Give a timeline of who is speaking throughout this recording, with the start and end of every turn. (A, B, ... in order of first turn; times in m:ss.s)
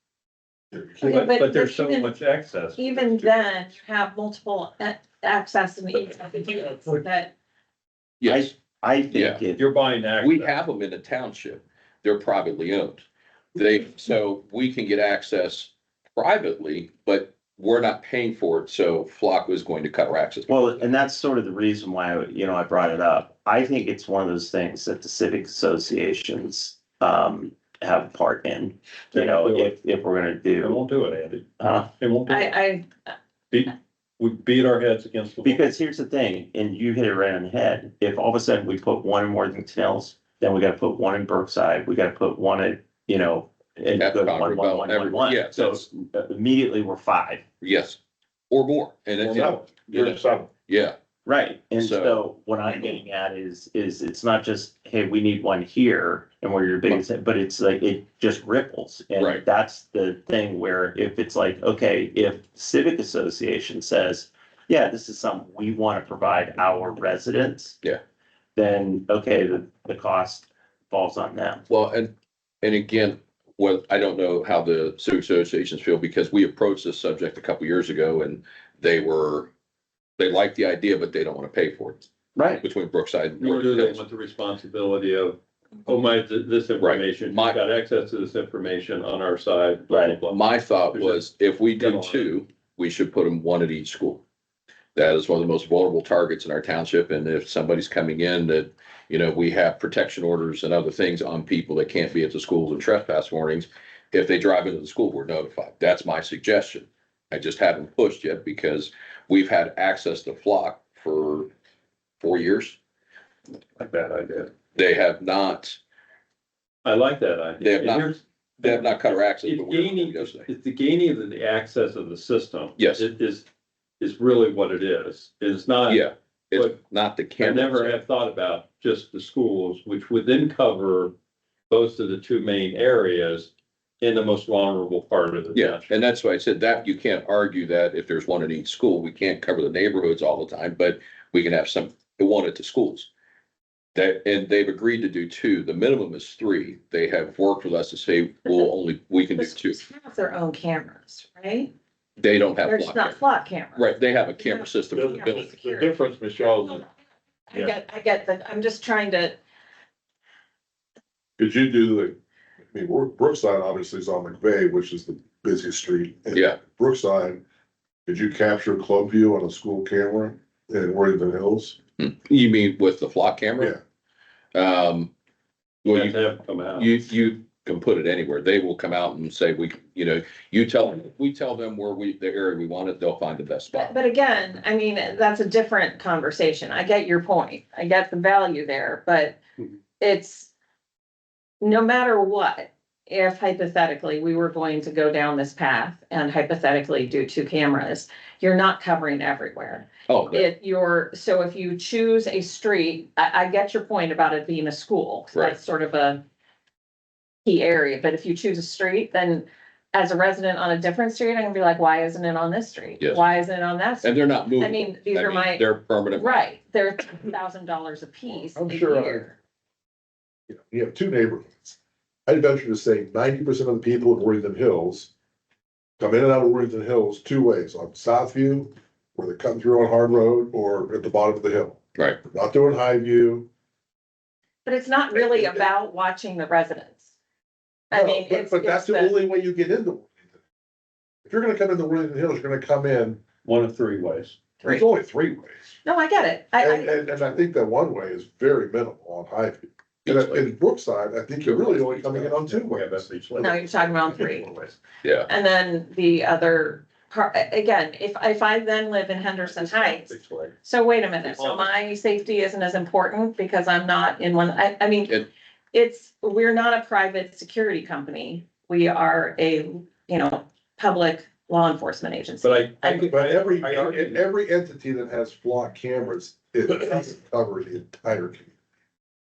0:00.7-0:01.2 A
0:01.0-0:02.1 B
0:01.0-0:03.0 C
0:02.8-0:07.3 B
0:08.2-0:08.5 D
0:08.2-0:09.6 E
0:09.1-0:09.4 D
0:09.6-0:10.5 C
0:10.2-0:20.8 D
0:20.5-0:30.8 E
0:29.1-0:29.7 C
0:30.6-0:32.6 C
0:31.6-0:31.9 E
0:32.3-0:32.9 B
0:33.5-0:35.6 C
0:35.4-0:47.4 E
0:44.0-0:45.8 D
0:47.6-0:48.0 D
0:48.5-0:51.0 D
0:49.2-0:50.5 A
0:51.2-1:07.8 E
0:51.8-0:52.2 D
0:59.2-0:59.4 D
1:08.6-1:11.6 E
1:11.7-1:19.5 D
1:20.2-1:22.1 D
1:22.4-1:22.6 E
1:22.6-1:24.0 D
1:23.4-1:30.4 C
1:26.8-1:27.6 D
1:29.9-1:30.2 E
1:30.3-1:34.2 D
1:30.9-1:31.2 C
1:31.8-1:32.3 C
1:34.9-1:51.5 D
1:52.2-1:52.8 D
1:53.8-1:54.5 C
1:54.7-1:55.8 D
1:56.8-2:03.5 C
1:57.6-1:58.1 D
1:58.6-2:00.5 D
2:02.8-2:03.0 D
2:04.0-2:06.8 C
2:05.9-2:07.9 D
2:07.4-2:11.1 C
2:11.7-2:15.9 C
2:15.5-2:23.1 D
2:23.9-2:29.8 D
2:29.4-2:31.7 B
2:32.2-2:33.2 D
2:32.6-2:36.8 B
2:33.8-2:35.5 D
2:35.2-2:36.8 C
2:37.5-2:39.4 B
2:41.4-2:42.2 A
2:42.7-2:47.4 A
2:46.3-2:46.6 D
2:48.0-2:51.8 A
2:52.0-2:53.8 D
2:54.5-2:55.1 D
2:55.8-2:56.9 C
2:55.8-2:56.1 D
2:56.8-3:04.0 D
3:03.7-3:09.4 B
3:10.0-3:10.5 B
3:11.6-3:26.2 B
3:20.1-3:20.5 D
3:27.4-3:39.4 B
3:34.0-3:36.4 D
3:38.5-3:39.3 A
3:40.5-3:45.1 A
3:46.0-3:53.5 A
3:54.6-3:57.1 B
3:55.1-3:55.6 A
3:57.9-3:59.2 B
3:57.9-4:00.2 A
4:01.3-4:03.2 A
4:03.4-4:04.5 C
4:04.6-4:04.8 B
4:04.6-4:05.8 A
4:05.8-4:07.1 B
4:06.6-4:13.6 A
4:10.0-4:10.4 D
4:11.5-4:14.8 C
4:13.4-4:14.5 B
4:15.3-4:20.1 B
4:19.4-4:20.6 C
4:20.6-4:33.1 B
4:21.2-4:21.7 C
4:32.4-4:34.2 C
4:33.1-4:38.5 A